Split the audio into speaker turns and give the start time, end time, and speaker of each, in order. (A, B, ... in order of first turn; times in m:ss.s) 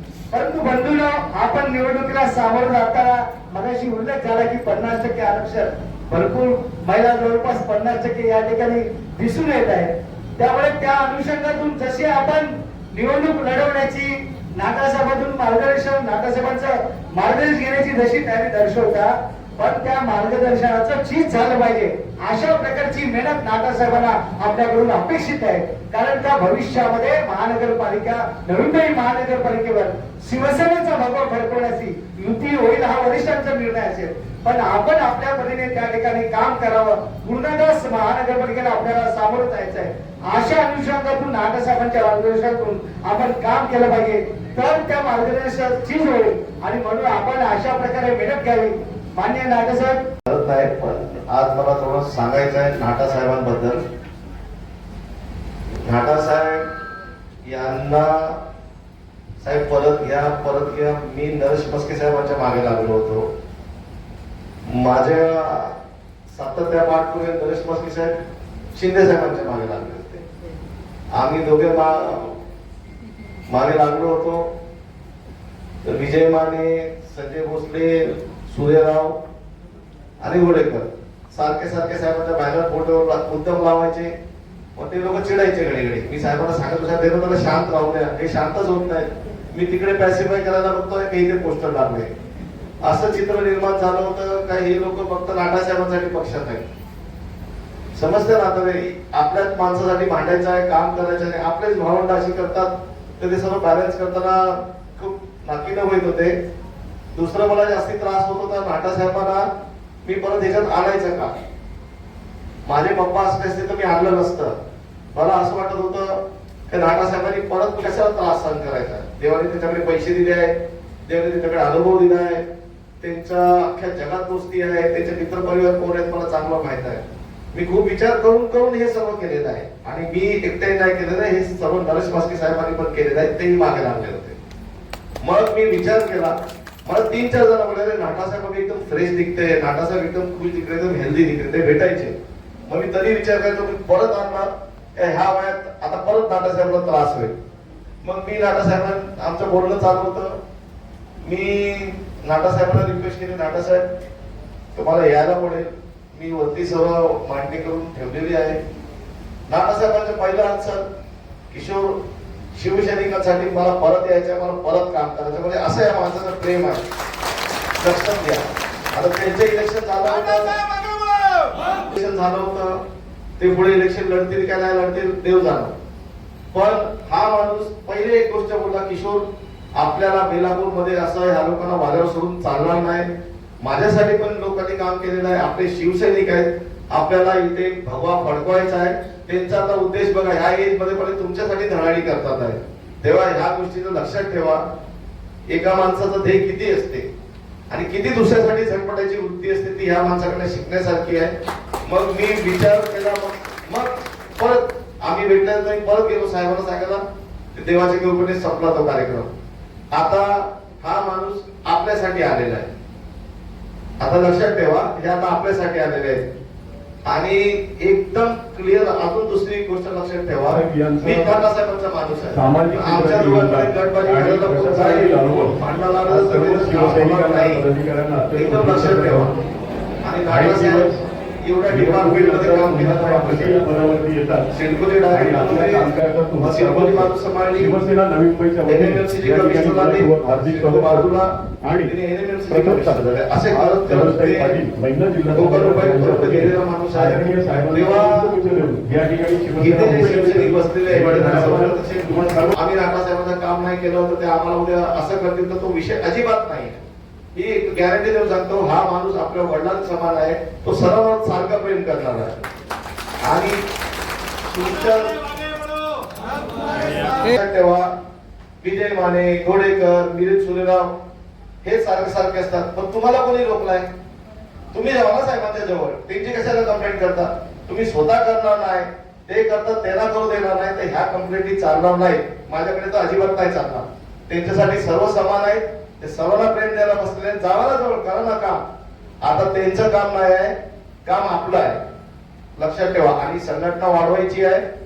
0:00.3-0:50.0 A
0:50.3-0:53.8 B
0:55.8-0:56.7 B
0:57.4-0:58.4 B
0:59.4-1:03.3 B
1:04.7-1:05.8 B
1:06.3-1:08.2 B
1:08.7-1:10.2 B
1:11.1-1:12.4 B
1:13.5-1:14.5 B
1:15.8-1:19.2 B
1:20.2-1:24.1 B
1:24.8-1:32.1 B
1:32.8-1:36.7 B
1:37.9-1:46.4 B
1:47.1-1:49.5 B
1:50.0-1:51.4 B
1:52.6-1:54.6 B
1:55.1-2:00.5 B
2:01.1-2:02.4 B
2:03.0-2:14.3 B
2:15.2-2:27.4 B
2:28.0-2:30.4 B
2:31.2-2:33.8 B
2:34.7-2:38.6 B
2:39.5-2:40.8 B
2:41.5-2:42.0 B
2:42.6-2:46.8 B
2:47.8-2:50.6 B
2:51.7-2:52.8 B
2:53.4-2:55.7 B
2:56.5-3:03.1 B
3:03.6-3:14.6 B
3:15.5-3:17.0 B
3:17.7-3:21.3 B
3:21.9-3:27.0 B
3:27.5-3:29.3 B
3:29.9-3:32.7 B
3:34.0-3:36.3 B
3:37.0-3:47.6 B
3:40.5-3:41.4 C
3:42.3-3:49.3 C
3:48.3-3:49.4 B
3:50.0-3:50.9 B
3:50.3-3:51.0 C
3:51.4-3:53.7 B
3:51.7-3:54.5 C
3:54.5-3:57.8 B
3:55.1-4:01.9 C
3:58.6-4:04.6 B
4:02.5-4:12.5 C
4:05.3-4:08.3 B
4:09.6-4:16.8 B
4:17.3-4:22.4 B
4:23.2-4:23.6 B
4:24.5-4:25.2 B
4:26.7-4:27.9 B
4:28.6-4:30.9 B
4:31.6-4:33.9 B
4:34.7-4:48.6 B
4:49.2-4:51.8 B
4:52.6-4:54.6 B